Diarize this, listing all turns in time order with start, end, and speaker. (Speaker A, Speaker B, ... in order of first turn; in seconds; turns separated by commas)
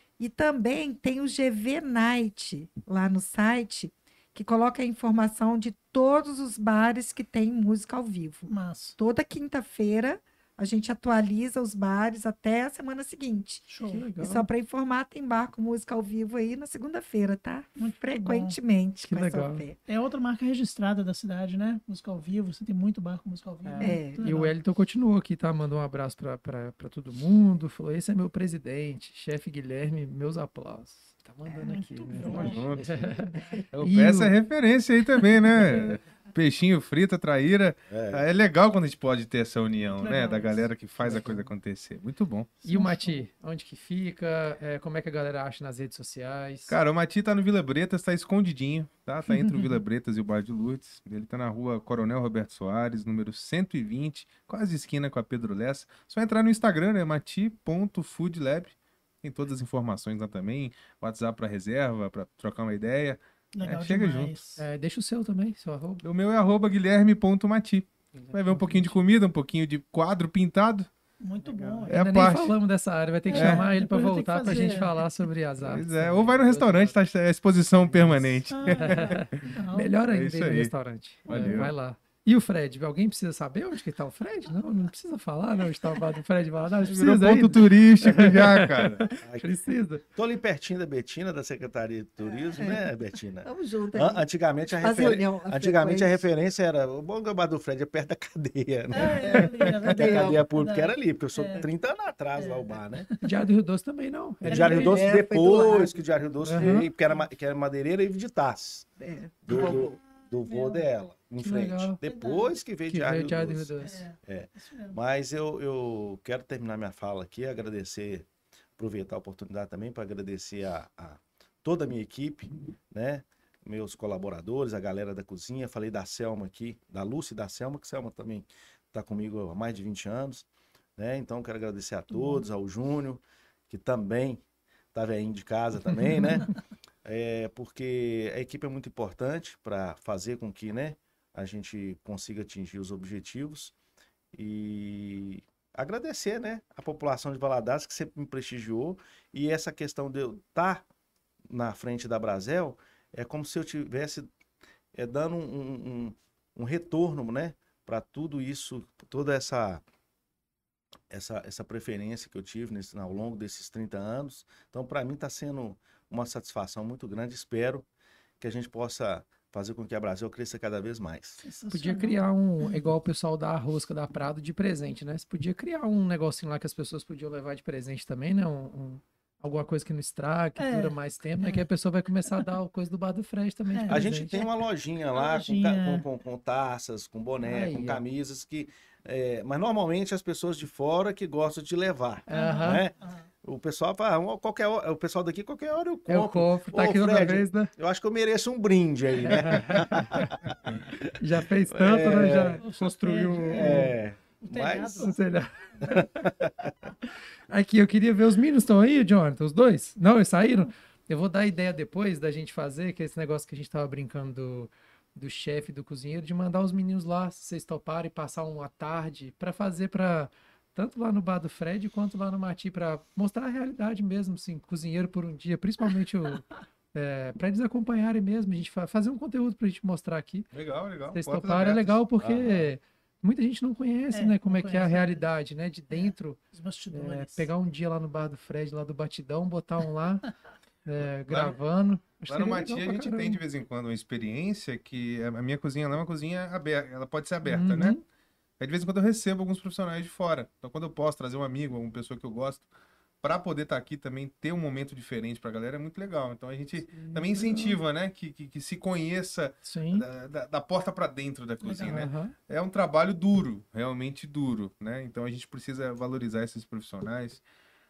Speaker A: 0.2-13.7, Speaker B: 8.5-9.0, Speaker B: 13.7-14.1, Speaker C: 13.9-14.4, Speaker A: 14.2-19.8, Speaker B: 17.8-18.6, Speaker C: 19.1-19.6, Speaker B: 19.9-24.5, Speaker C: 23.6-34.3, Speaker A: 23.8-24.2, Speaker B: 31.6-33.6, Speaker D: 32.2-32.9, Speaker D: 33.7-42.6, Speaker B: 35.5-36.0, Speaker E: 37.9-38.2, Speaker B: 39.9-40.7, Speaker C: 41.0-41.5, Speaker B: 42.6-43.2, Speaker C: 42.6-46.8, Speaker D: 46.7-64.4, Speaker B: 49.3-49.6, Speaker B: 63.5-64.6, Speaker C: 64.6-66.0, Speaker D: 66.0-70.9, Speaker C: 68.1-69.0, Speaker B: 71.2-72.1, Speaker C: 71.4-77.0, Speaker D: 71.9-72.5, Speaker B: 73.3-75.1, Speaker D: 73.3-73.6, Speaker D: 75.6-79.5, Speaker C: 77.8-90.0, Speaker B: 78.5-79.9, Speaker D: 80.1-81.7, Speaker B: 81.3-81.7, Speaker D: 86.8-89.1, Speaker E: 89.2-89.5, Speaker E: 90.1-103.1, Speaker A: 92.6-92.8, Speaker A: 93.4-96.2, Speaker B: 98.9-101.7, Speaker A: 99.8-100.4, Speaker B: 102.3-103.4, Speaker C: 103.2-105.0, Speaker E: 104.4-108.9, Speaker B: 104.5-105.0, Speaker A: 104.5-106.0, Speaker C: 106.4-106.9, Speaker A: 109.0-110.0, Speaker E: 109.4-134.4, Speaker B: 110.4-110.8, Speaker C: 111.4-112.0, Speaker B: 112.0-112.5, Speaker C: 112.9-114.1, Speaker B: 113.8-115.0, Speaker B: 132.1-132.4, Speaker E: 134.9-143.7, Speaker E: 144.3-150.8, Speaker E: 151.5-154.3, Speaker E: 154.9-159.8, Speaker E: 161.1-167.9, Speaker E: 168.4-171.4, Speaker B: 171.4-172.8, Speaker C: 171.7-184.3, Speaker B: 180.6-181.7, Speaker B: 183.7-184.5, Speaker E: 183.9-201.0, Speaker B: 185.1-186.1, Speaker C: 187.4-188.0, Speaker B: 192.3-193.3, Speaker C: 192.3-192.8, Speaker C: 196.1-197.7, Speaker C: 199.2-200.4, Speaker C: 201.0-203.9, Speaker E: 201.6-202.6, Speaker B: 202.6-205.2, Speaker E: 203.5-205.1, Speaker C: 205.0-206.3, Speaker E: 205.8-206.7, Speaker C: 207.5-230.5, Speaker D: 230.5-232.0, Speaker C: 231.1-240.3, Speaker E: 232.2-232.7, Speaker B: 234.1-235.2, Speaker B: 235.9-237.5, Speaker C: 240.8-243.4, Speaker D: 241.0-241.6, Speaker D: 242.3-248.0, Speaker C: 247.4-248.0, Speaker D: 248.6-252.7, Speaker D: 253.2-267.4, Speaker C: 256.9-257.8, Speaker C: 259.6-260.1, Speaker B: 261.6-262.1, Speaker C: 261.8-262.3